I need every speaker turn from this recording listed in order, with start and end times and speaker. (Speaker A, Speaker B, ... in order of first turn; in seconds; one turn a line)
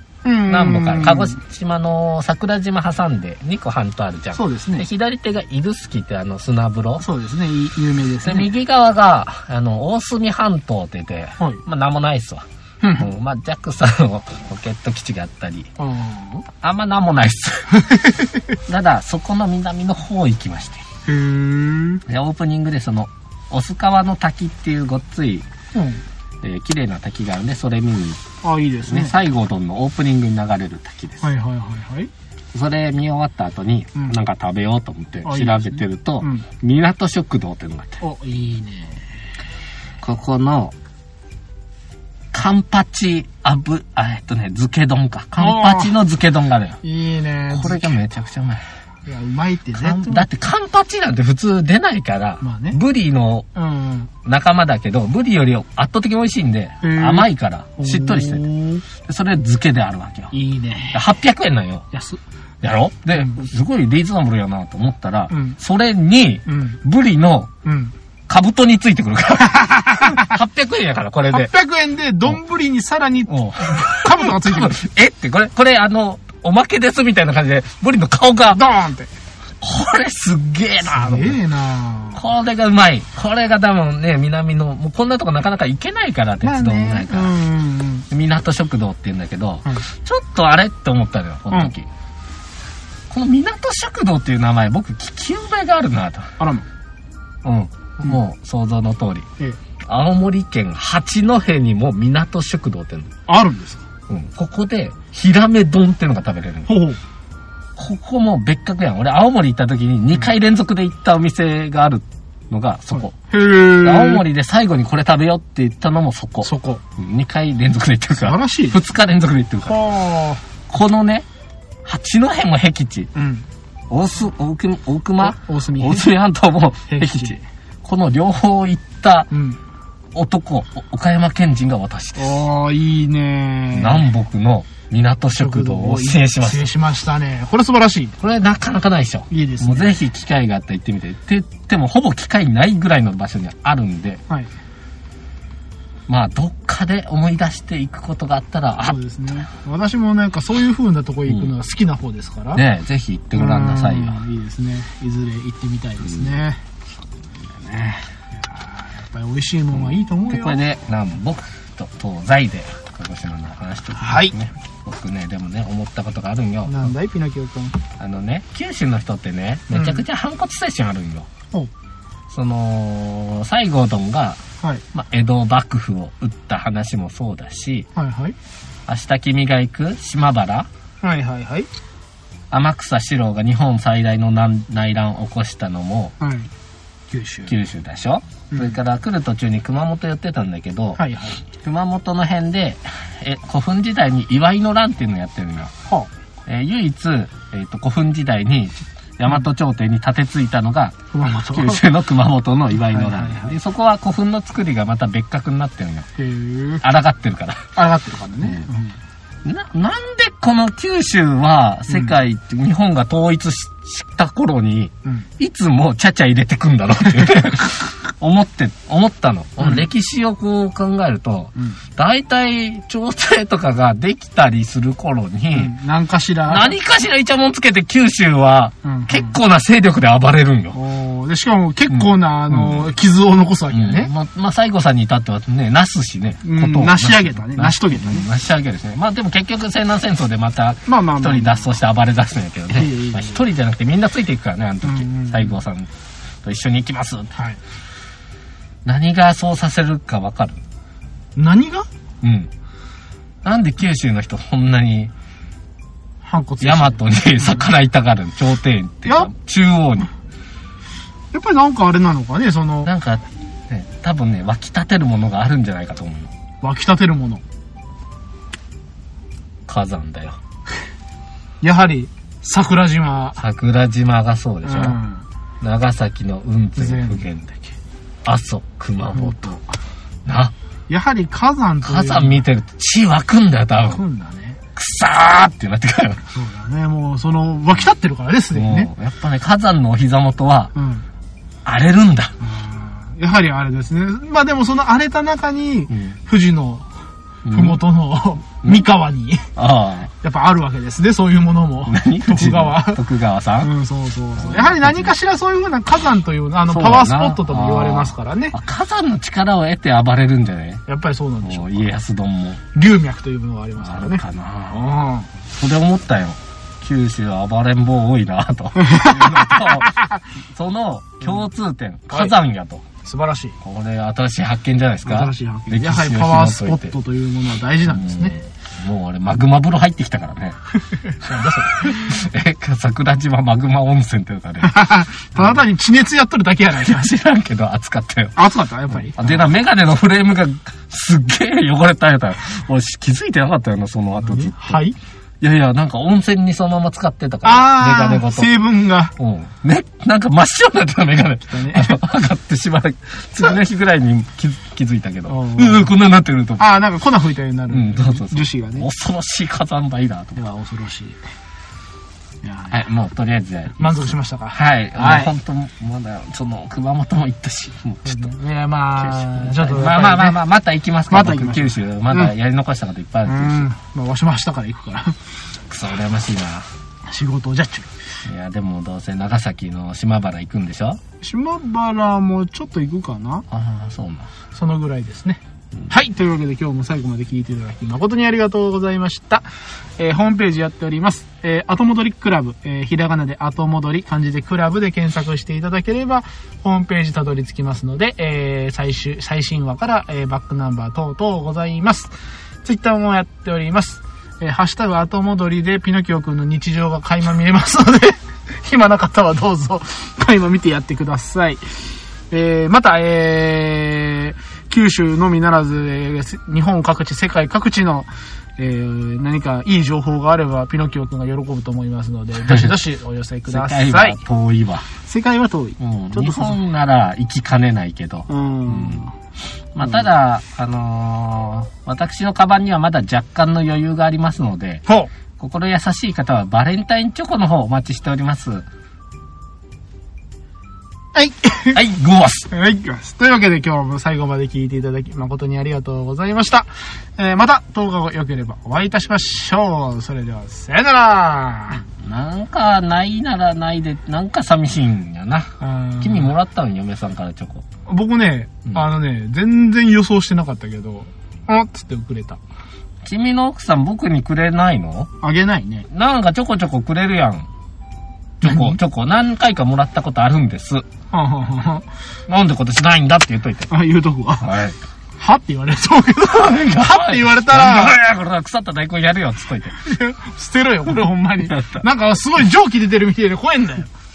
Speaker A: 0.2-1.4
Speaker B: 0.5-7.0
Speaker A: 4.3-4.8
Speaker A: 7.0-8.5
Speaker B: 8.2-15.7
Speaker A: 12.8-13.1
Speaker A: 15.8-16.4
Speaker B: 16.6-20.8
Speaker A: 17.9-18.2
Speaker A: 21.0-22.0
Speaker B: 22.1-25.5
Speaker A: 25.7-26.0
Speaker B: 26.4-28.2
Speaker A: 28.4-29.2
Speaker B: 28.8-31.3
Speaker A: 31.2-32.1
Speaker B: 32.5-38.0
Speaker A: 35.2-36.5
Speaker A: 38.0-39.0
Speaker B: 40.0-40.7
Speaker B: 42.3-46.8
Speaker A: 45.4-45.9
Speaker A: 46.8-48.0
Speaker B: 47.5-48.6
Speaker A: 49.0-50.3
Speaker B: 49.7-53.5
Speaker A: 52.4-52.8
Speaker A: 53.5-54.1
Speaker B: 54.2-58.5
Speaker A: 56.8-58.8
Speaker B: 59.0-60.3
Speaker A: 60.3-61.0
Speaker B: 60.9-61.9
Speaker A: 61.9-62.2
Speaker B: 62.6-67.5
Speaker A: 65.3-65.6
Speaker A: 66.5-66.8
Speaker A: 67.6-67.9
Speaker B: 68.3-71.5
Speaker A: 69.4-70.4
Speaker A: 71.3-74.8
Speaker B: 73.3-78.6
Speaker A: 78.5-79.1
Speaker B: 79.6-81.4
Speaker A: 80.8-82.2
Speaker B: 82.1-87.3
Speaker A: 86.4-88.1
Speaker B: 88.1-91.9
Speaker B: 93.1-96.3
Speaker A: 96.4-96.7
Speaker B: 97.4-99.3
Speaker B: 99.9-103.1
Speaker A: 103.3-103.8
Speaker B: 104.1-106.7
Speaker A: 106.7-107.0
Speaker B: 107.8-119.8
Speaker A: 112.9-114.2
Speaker A: 116.4-116.8
Speaker A: 118.2-118.8
Speaker A: 119.6-120.4
Speaker B: 120.7-121.2
Speaker B: 121.8-123.1
Speaker A: 123.1-123.5
Speaker B: 123.9-129.3
Speaker A: 125.2-126.1
Speaker A: 126.9-127.4
Speaker A: 129.3-129.6
Speaker B: 130.1-132.4
Speaker A: 132.2-134.1
Speaker B: 133.7-136.7
Speaker A: 135.3-138.2
Speaker B: 138.2-144.2
Speaker A: 139.3-140.0
Speaker B: 146.1-149.0
Speaker A: 148.8-152.6
Speaker B: 151.3-151.5
Speaker B: 152.5-154.2
Speaker A: 153.3-156.6
Speaker B: 157.6-158.0
Speaker A: 158.4-160.6
Speaker B: 159.7-166.9
Speaker A: 164.0-164.3
Speaker A: 166.6-167.8
Speaker B: 168.0-171.3
Speaker A: 169.7-170.0
Speaker B: 172.3-177.9
Speaker A: 177.9-178.3
Speaker B: 178.9-180.7
Speaker A: 181.0-181.7
Speaker B: 182.5-186.1
Speaker A: 186.2-186.5
Speaker A: 187.1-187.5
Speaker B: 187.4-191.0
Speaker A: 191.0-191.4
Speaker B: 191.6-195.7
Speaker B: 196.5-206.1
Speaker A: 201.1-201.8
Speaker A: 202.7-203.6
Speaker A: 206.2-206.8
Speaker B: 206.8-207.7
Speaker A: 207.8-209.0
Speaker B: 209.4-225.7
Speaker A: 219.6-219.9
Speaker A: 225.5-226.8
Speaker B: 226.5-230.8
Speaker A: 228.8-229.3
Speaker A: 230.7-234.1
Speaker B: 231.9-232.9
Speaker B: 233.7-245.9
Speaker A: 236.4-238.3
Speaker A: 240.8-241.7
Speaker A: 242.7-243.4
Speaker A: 244.8-245.6
Speaker B: 246.4-247.3
Speaker B: 248.8-250.6
Speaker A: 251.3-251.9
Speaker B: 252.2-252.5
Speaker B: 253.4-255.1
Speaker A: 256.2-257.7
Speaker B: 256.6-260.1
Speaker A: 259.0-259.3
Speaker A: 261.3-262.9
Speaker B: 262.9-266.3
Speaker A: 266.6-267.4
Speaker B: 269.7-270.4
Speaker A: 271.6-273.4
Speaker B: 273.4-275.0
Speaker A: 274.6-275.2
Speaker B: 275.6-277.6
Speaker A: 276.8-277.2
Speaker B: 278.2-279.6
Speaker A: 279.1-279.6
Speaker B: 280.2-280.5
Speaker A: 280.9-282.4
Speaker B: 281.8-284.0
Speaker A: 283.9-284.6
Speaker B: 284.7-286.2
Speaker A: 286.3-288.9
Speaker B: 288.5-290.7
Speaker A: 290.7-291.1
Speaker B: 291.6-292.3
Speaker A: 292.4-296.9
Speaker B: 295.9-296.1
Speaker B: 297.4-297.8
Speaker A: 297.5-299.5
Speaker B: 299.6-300.1
Speaker A: 300.2-303.0
Speaker B: 301.9-303.7
Speaker A: 303.6-308.6
Speaker B: 304.4-305.1
Speaker B: 306.7-310.8
Speaker A: 310.9-311.9
Speaker B: 311.4-312.6
Speaker A: 312.7-315.3
Speaker B: 313.8-314.9
Speaker B: 315.5-322.9
Speaker A: 318.8-320.2
Speaker A: 323.0-323.6
Speaker B: 323.6-326.9
Speaker A: 325.0-328.4
Speaker B: 327.9-330.6
Speaker A: 331.0-332.2
Speaker B: 331.3-335.6
Speaker A: 334.6-337.1
Speaker B: 336.8-338.4
Speaker A: 338.4-339.4
Speaker B: 338.9-344.8
Speaker A: 344.2-345.0
Speaker B: 345.4-348.5
Speaker A: 347.4-349.1
Speaker B: 349.2-356.7
Speaker A: 351.5-352.0
Speaker A: 355.3-355.9
Speaker A: 356.6-358.9
Speaker B: 357.7-360.4
Speaker A: 360.4-361.2
Speaker A: 362.4-362.8
Speaker B: 362.7-368.3
Speaker A: 363.8-365.3
Speaker A: 368.0-370.4
Speaker B: 369.0-373.7
Speaker A: 371.1-372.3
Speaker A: 373.2-375.2
Speaker B: 375.7-376.7
Speaker A: 377.1-377.9
Speaker B: 378.2-381.0
Speaker A: 381.2-383.4
Speaker B: 383.5-384.3
Speaker A: 384.5-402.1
Speaker A: 402.6-424.2
Speaker B: 422.4-422.8
Speaker B: 423.5-424.9
Speaker A: 424.9-426.6
Speaker B: 425.8-429.1
Speaker A: 428.3-429.1
Speaker B: 429.7-434.8
Speaker B: 435.4-438.6
Speaker A: 441.1-441.8
Speaker B: 441.7-442.5
Speaker A: 442.5-451.8
Speaker B: 451.9-457.6
Speaker A: 455.6-456.3
Speaker A: 457.9-462.4
Speaker B: 463.0-465.1
Speaker A: 465.2-465.9
Speaker B: 465.9-467.5
Speaker B: 468.4-470.9
Speaker A: 468.4-468.8
Speaker A: 471.1-471.9
Speaker B: 472.3-473.7
Speaker A: 473.7-474.5
Speaker B: 474.4-474.8
Speaker A: 475.2-478.0
Speaker B: 476.3-479.8
Speaker A: 479.8-483.9
Speaker B: 481.4-481.8